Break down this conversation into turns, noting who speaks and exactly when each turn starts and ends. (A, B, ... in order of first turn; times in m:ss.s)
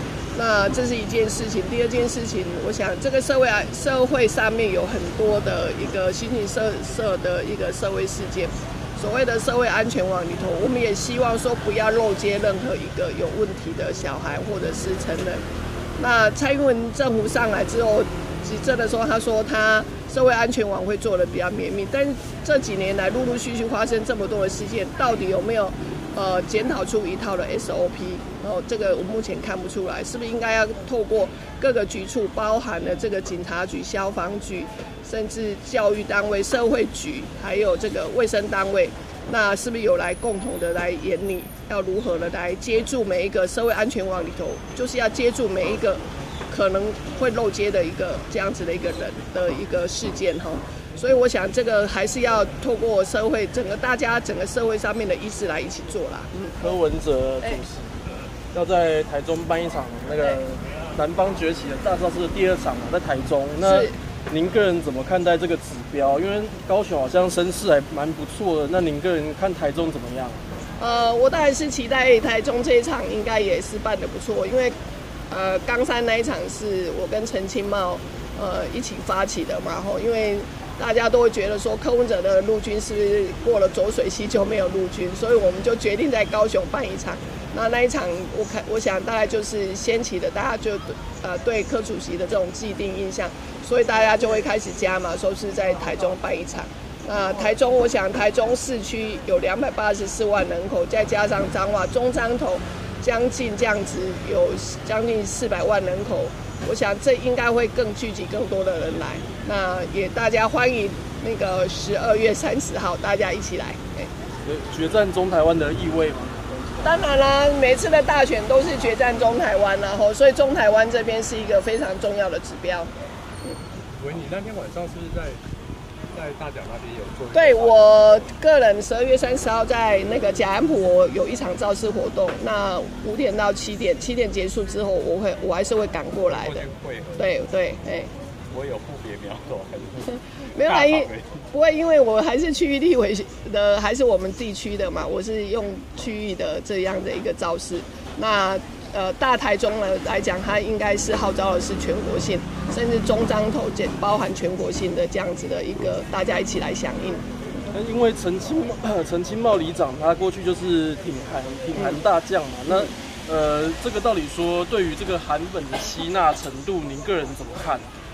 0:00.3-0:15.4 A
0:16.0-0:56.6 A
0:56.6-0:58.0 B
0:58.5-1:10.4 B
1:03.6-1:04.0 A
1:10.8-1:14.8 A
1:15.3-1:54.1 A
1:54.4-1:57.0 B
1:56.8-2:02.9 A
2:03.9-2:05.4 C
2:06.1-2:07.9 C
2:07.3-2:16.7 A
2:16.3-2:17.4 C
2:17.2-2:18.1 A
2:18.5-2:21.4 C
2:20.1-2:37.2 A
2:37.7-2:47.9 B
2:41.8-2:42.0 A